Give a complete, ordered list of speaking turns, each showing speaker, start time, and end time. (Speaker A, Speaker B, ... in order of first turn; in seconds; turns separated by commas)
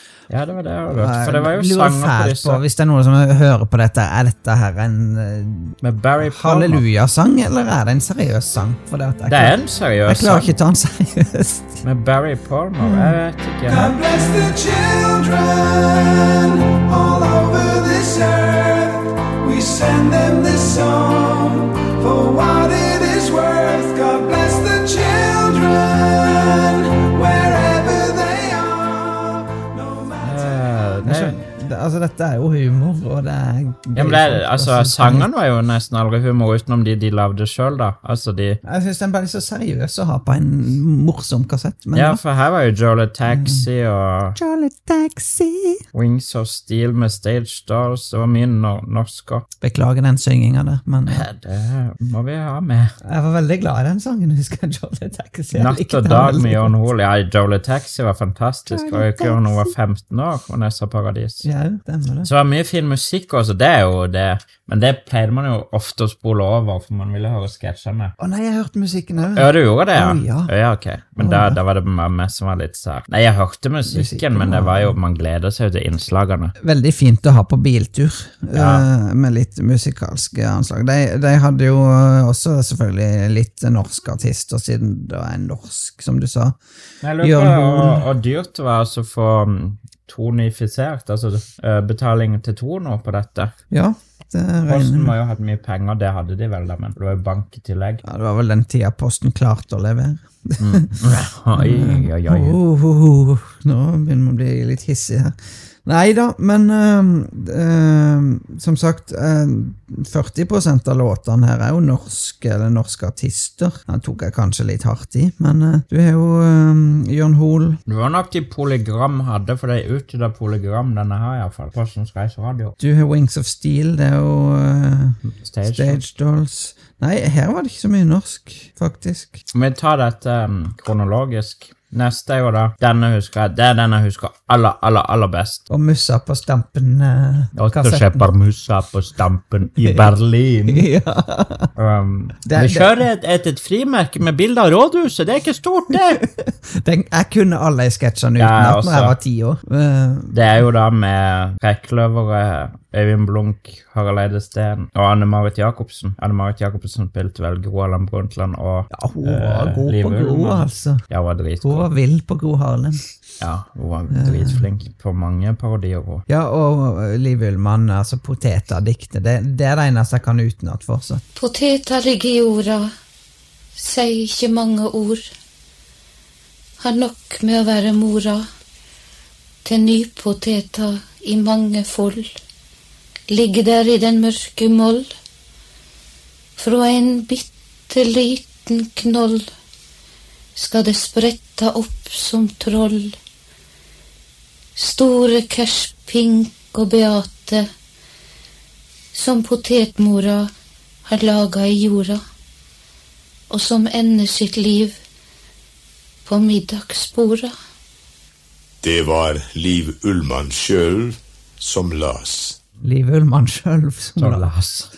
Speaker A: 0.3-2.6, Speaker B: 0.9-11.8, Speaker A: 5.8-6.8, Speaker A: 9.3-10.5, Speaker A: 11.8-13.9, Speaker B: 12.8-35.3, Speaker A: 30.2-31.3, Speaker A: 33.9-38.6, Speaker B: 38.6-42.2, Speaker A: 41.9-44.4, Speaker B: 43.3-43.7, Speaker B: 44.4-45.8, Speaker A: 45.9-49.5, Speaker B: 49.6-51.3, Speaker A: 51.1-52.9, Speaker B: 53.0-56.7, Speaker A: 55.5-61.5, Speaker B: 58.7-59.7, Speaker B: 61.4-62.3, Speaker A: 62.2-68.1, Speaker B: 68.2-70.5, Speaker A: 69.3-76.5, Speaker B: 71.2-71.6, Speaker B: 73.9-75.0, Speaker B: 76.6-86.6, Speaker A: 78.5-78.8, Speaker A: 87.0-93.5, Speaker B: 87.2-88.0, Speaker B: 93.7-95.2, Speaker A: 94.7-98.0, Speaker B: 98.0-101.0, Speaker A: 100.6-102.6, Speaker B: 101.5-117.8, Speaker A: 117.9-122.8, Speaker B: 122.8-129.4, Speaker A: 125.2-126.0, Speaker A: 129.5-135.7, Speaker B: 135.7-138.3, Speaker A: 137.5-140.9, Speaker B: 139.8-140.1, Speaker B: 140.7-141.7, Speaker A: 141.8-146.2, Speaker B: 142.4-143.0, Speaker B: 146.1-150.3, Speaker A: 148.4-149.2, Speaker A: 150.3-161.8, Speaker B: 158.9-161.0, Speaker B: 161.6-163.0, Speaker A: 163.4-166.2, Speaker B: 164.1-164.6, Speaker B: 166.3-171.2, Speaker C: 171.3-172.9, Speaker C: 173.8-175.2, Speaker C: 176.8-178.4, Speaker C: 179.6-182.3, Speaker C: 183.3-185.1, Speaker C: 186.6-189.4, Speaker C: 190.6-193.1, Speaker C: 194.8-197.7, Speaker C: 199.1-200.5, Speaker C: 201.1-202.2, Speaker C: 203.5-204.9, Speaker C: 206.2-207.5, Speaker D: 208.8-212.6, Speaker B: 212.8-214.5, Speaker A: 214.2-214.9